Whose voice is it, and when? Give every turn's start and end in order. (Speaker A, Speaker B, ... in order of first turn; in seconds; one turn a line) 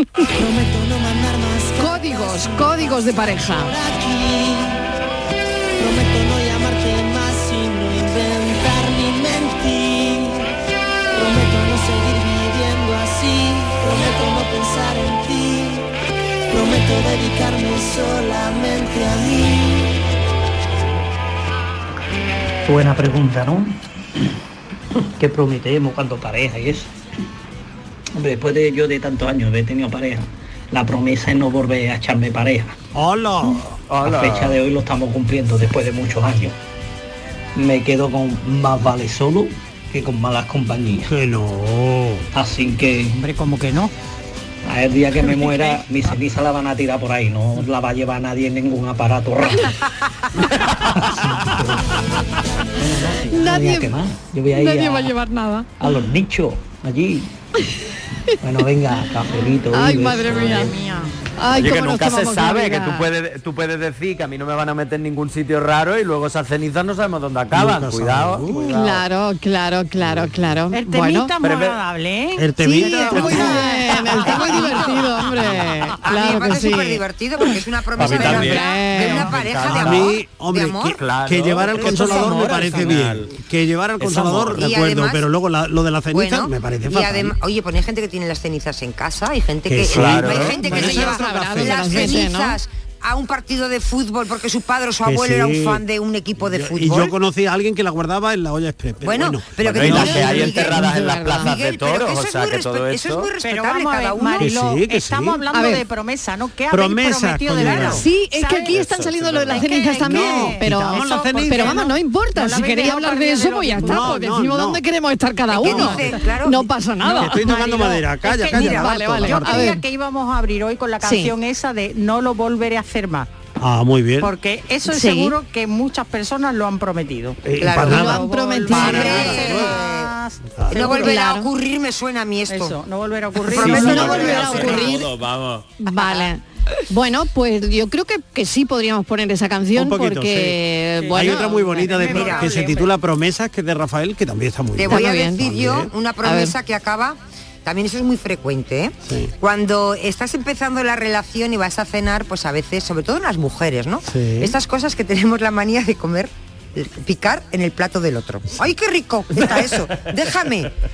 Speaker A: 0.3-4.9
Speaker B: 1.8-3.8
Speaker A: 5.8-10.5
Speaker A: 11.1-15.9
Speaker A: 16.5-19.9
Speaker C: 22.7-23.8
Speaker C: 25.0-26.9
Speaker C: 28.2-32.8
Speaker D: 33.0-33.8
Speaker E: 33.9-34.6
Speaker C: 34.0-36.5
Speaker C: 37.6-41.1
Speaker D: 41.1-42.3
Speaker C: 42.3-43.2
Speaker F: 43.1-43.9
Speaker C: 44.6-49.8
Speaker C: 50.8-52.0
Speaker C: 52.8-55.2
Speaker B: 53.3-54.0
Speaker B: 54.5-55.8
Speaker C: 55.8-57.3
Speaker C: 58.4-60.8
Speaker B: 59.7-60.7
Speaker F: 60.5-61.2
Speaker B: 61.4-63.0
Speaker E: 61.5-69.0
Speaker D: 67.5-68.8
Speaker B: 68.7-71.3
Speaker F: 70.7-75.3
Speaker E: 71.4-71.8
Speaker D: 72.4-74.6
Speaker B: 72.6-77.0
Speaker G: 74.2-75.1
Speaker G: 76.0-81.0
Speaker E: 78.0-80.2
Speaker D: 78.0-78.5
Speaker B: 78.1-79.3
Speaker D: 79.6-87.3
Speaker E: 81.0-83.4
Speaker G: 81.8-82.3
Speaker F: 81.9-82.8
Speaker E: 84.0-84.6
Speaker G: 84.5-85.3
Speaker G: 86.1-97.1
Speaker D: 89.7-92.2
Speaker E: 89.9-90.6
Speaker B: 90.5-92.6
Speaker D: 95.0-95.8
Speaker D: 96.4-100.7
Speaker G: 99.0-104.5
Speaker E: 99.6-103.3
Speaker B: 99.9-101.5
Speaker F: 103.4-108.8
Speaker D: 104.4-105.4
Speaker B: 105.5-105.8
Speaker D: 106.7-108.1
Speaker G: 107.6-108.0
Speaker B: 107.9-117.5
Speaker D: 108.8-111.9
Speaker F: 109.5-114.2
Speaker D: 113.8-114.8
Speaker G: 115.5-116.7
Speaker D: 115.6-116.0
Speaker F: 115.7-116.3
Speaker F: 117.0-123.3
Speaker D: 117.2-119.8
Speaker G: 118.5-118.9
Speaker B: 118.6-119.8
Speaker B: 121.0-121.3
Speaker D: 123.6-124.3
Speaker F: 124.2-131.2
Speaker B: 124.9-125.3
Speaker D: 127.4-129.8
Speaker G: 127.6-128.2
Speaker B: 127.8-129.4
Speaker G: 128.7-130.1
Speaker D: 130.6-130.9
Speaker G: 130.7-132.8
Speaker B: 130.7-131.5
Speaker F: 132.5-134.9
Speaker D: 133.5-134.7
Speaker G: 133.5-135.0
Speaker B: 133.5-135.1
Speaker E: 133.8-135.7
Speaker B: 135.8-141.9
Speaker F: 136.0-136.3
Speaker D: 139.8-145.9
Speaker F: 141.0-142.9
Speaker G: 142.0-142.6
Speaker G: 144.8-160.7
Speaker B: 144.9-145.5
Speaker B: 146.2-146.5
Speaker D: 149.1-149.3
Speaker D: 154.1-154.6